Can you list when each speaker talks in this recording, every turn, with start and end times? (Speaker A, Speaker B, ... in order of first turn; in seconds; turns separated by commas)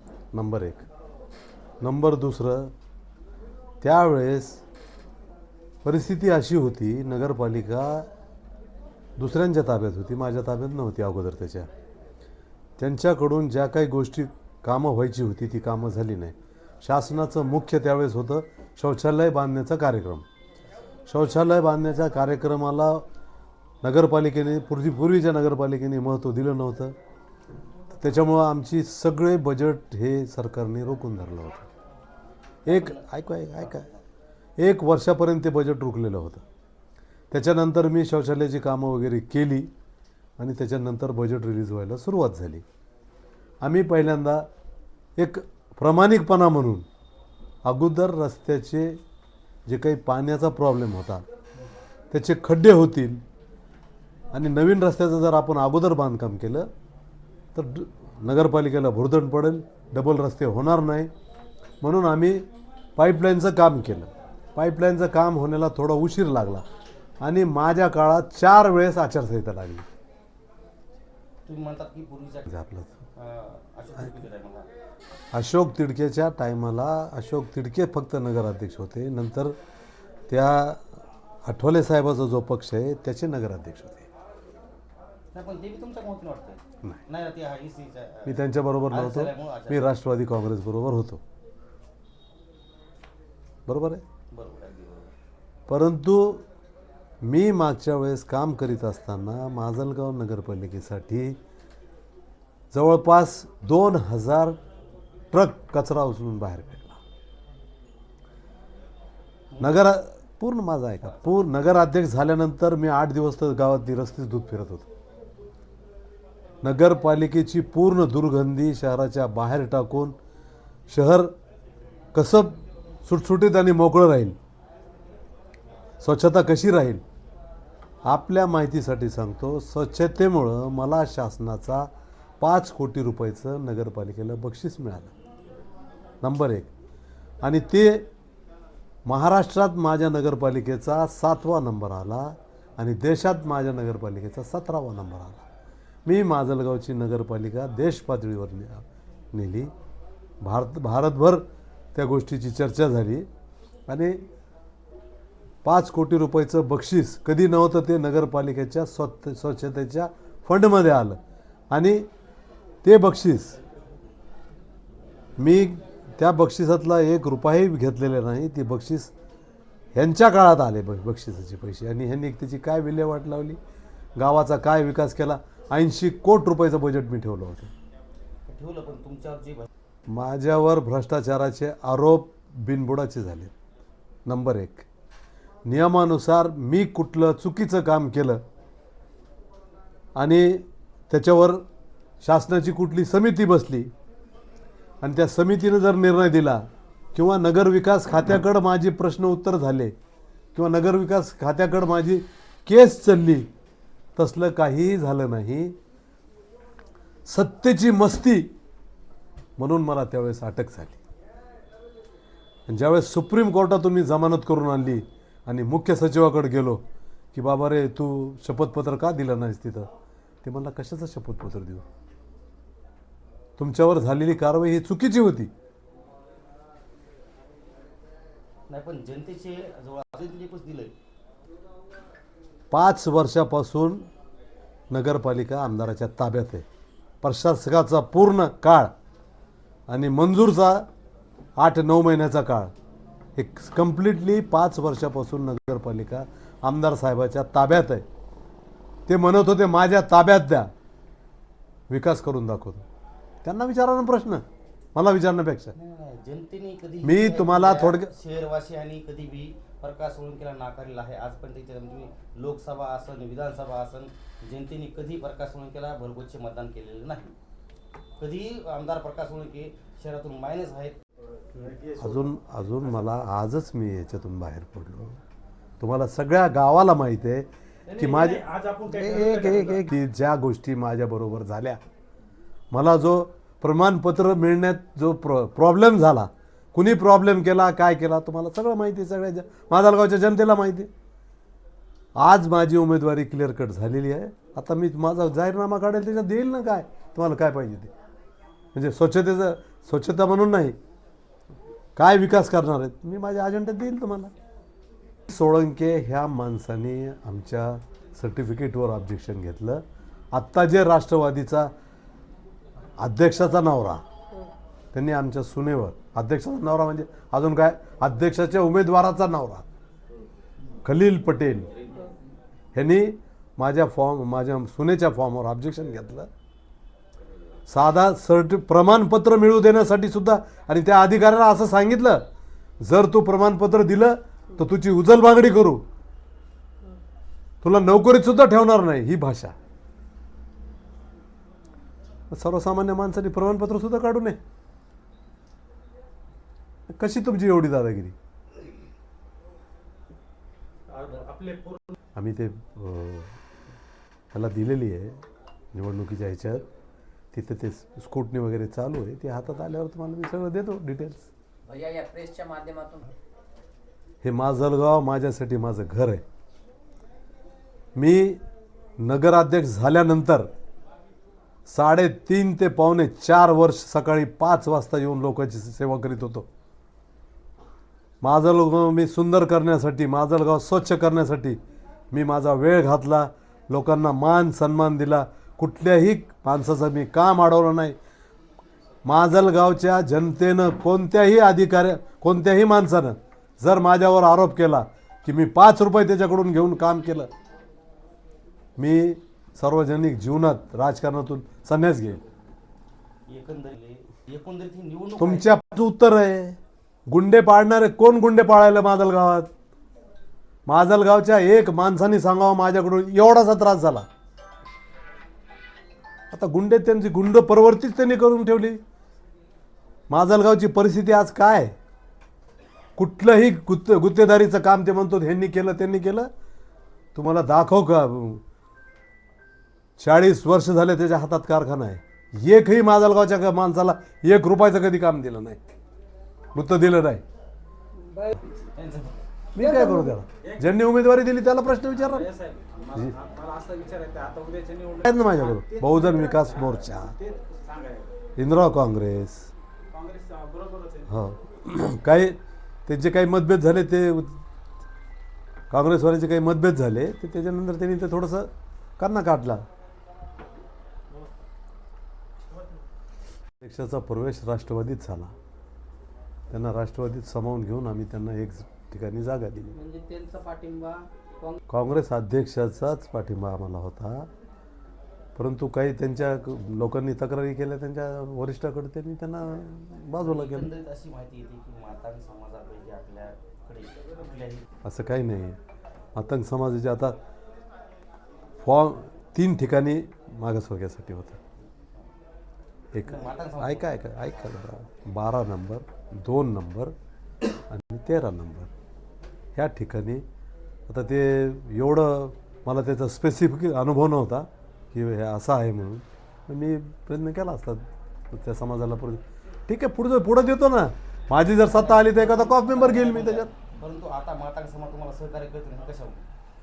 Speaker A: 0.3-0.8, Speaker A: 1.8-2.7, Speaker A: 3.8-4.6, Speaker A: 5.8-8.1, Speaker A: 9.2-11.7, Speaker A: 12.8-20.2, Speaker A: 21.1-23.0, Speaker A: 23.8-26.9, Speaker A: 27.9-31.7, Speaker A: 32.6-33.9, Speaker B: 32.6-34.0, Speaker A: 34.6-36.4, Speaker A: 37.3-39.7, Speaker A: 40.4-42.6, Speaker A: 43.6-44.5, Speaker A: 45.2-46.9, Speaker A: 47.6-49.0, Speaker A: 49.6-51.2, Speaker A: 52.1-53.2, Speaker A: 54.3-56.7, Speaker A: 57.5-61.1, Speaker A: 61.8-66.6, Speaker A: 67.2-69.9, Speaker B: 71.5-72.5, Speaker A: 72.5-73.0, Speaker B: 73.1-74.7, Speaker A: 75.3-79.5, Speaker A: 80.3-80.9, Speaker A: 81.5-84.1, Speaker B: 85.3-89.9, Speaker A: 88.2-91.2, Speaker A: 93.7-94.0, Speaker B: 94.3-95.1, Speaker A: 95.7-96.4, Speaker A: 97.2-101.4, Speaker A: 102.7-104.6, Speaker A: 105.3-107.0, Speaker B: 109.5-109.9, Speaker A: 109.6-114.9, Speaker A: 116.6-120.2, Speaker A: 120.9-121.3, Speaker A: 122.1-124.4, Speaker A: 126.0-127.0, Speaker A: 128.0-135.1, Speaker A: 136.2-136.7, Speaker A: 137.4-138.1, Speaker A: 139.1-145.4, Speaker A: 146.1-149.7, Speaker A: 150.4-153.3, Speaker A: 153.9-154.2, Speaker A: 155.6-161.2, Speaker A: 161.7-162.1, Speaker A: 162.8-163.6, Speaker A: 165.4-169.1, Speaker A: 169.9-173.6, Speaker A: 174.2-177.7, Speaker B: 178.5-179.7, Speaker A: 180.1-183.5, Speaker A: 184.2-184.9, Speaker A: 185.6-188.4, Speaker A: 190.2-191.6, Speaker A: 192.2-193.9, Speaker A: 195.0-199.9, Speaker A: 200.5-203.5, Speaker A: 204.2-205.8, Speaker A: 207.2-208.5, Speaker A: 209.6-211.0, Speaker A: 212.7-216.8, Speaker A: 217.3-219.9, Speaker A: 220.4-221.8, Speaker A: 223.6-225.5, Speaker B: 228.7-230.9, Speaker A: 232.7-234.1, Speaker A: 234.9-236.7, Speaker A: 237.2-238.9, Speaker A: 239.9-240.8, Speaker A: 241.6-242.7, Speaker A: 243.3-248.1, Speaker A: 249.1-250.7, Speaker A: 251.9-252.8, Speaker A: 253.4-254.4, Speaker A: 254.9-255.7, Speaker B: 255.7-267.3, Speaker A: 257.0-258.1, Speaker B: 268.2-271.0, Speaker C: 271.5-272.3, Speaker A: 272.0-275.2, Speaker A: 275.8-281.8, Speaker C: 277.9-279.9, Speaker A: 282.7-290.9, Speaker A: 292.1-297.9, Speaker A: 298.7-300.8, Speaker A: 301.9-304.3, Speaker A: 305.3-311.7, Speaker A: 313.0-314.0, Speaker A: 314.9-319.6, Speaker A: 320.8-321.9, Speaker A: 322.7-326.3, Speaker A: 327.7-332.2, Speaker A: 332.8-335.8, Speaker A: 337.6-339.5, Speaker A: 342.3-344.4, Speaker A: 346.9-348.1, Speaker C: 350.9-351.9, Speaker A: 352.1-353.4, Speaker A: 354.3-355.2, Speaker A: 355.7-356.7, Speaker A: 357.3-361.3, Speaker D: 361.6-363.1, Speaker A: 364.2-366.2, Speaker A: 367.9-368.4, Speaker A: 369.0-370.5, Speaker A: 371.6-376.5, Speaker A: 378.2-381.6, Speaker A: 382.1-388.0, Speaker A: 389.0-397.3, Speaker A: 398.8-402.2, Speaker B: 403.3-405.6, Speaker A: 405.2-406.6, Speaker A: 407.1-409.5, Speaker A: 410.6-414.1, Speaker A: 416.3-418.8, Speaker A: 420.1-421.7, Speaker A: 423.0-426.3, Speaker A: 427.1-428.4, Speaker A: 430.0-435.6, Speaker A: 436.5-437.2, Speaker D: 438.0-438.3, Speaker B: 438.7-439.2, Speaker A: 439.5-442.3, Speaker D: 439.6-440.1, Speaker C: 440.4-440.7, Speaker C: 442.0-448.1, Speaker A: 445.0-447.1, Speaker A: 448.4-449.5, Speaker C: 449.9-451.1, Speaker A: 451.1-454.4, Speaker A: 455.7-459.6, Speaker A: 463.6-465.3, Speaker A: 466.5-469.8, Speaker D: 469.7-471.6, Speaker A: 471.7-474.3, Speaker A: 475.4-480.7, Speaker B: 480.2-484.7, Speaker A: 484.8-485.6, Speaker A: 486.1-487.2, Speaker A: 488.6-491.4, Speaker A: 492.9-496.9, Speaker B: 493.0-494.0, Speaker A: 497.7-498.7, Speaker A: 499.5-500.2, Speaker A: 500.9-513.5, Speaker B: 511.6-516.2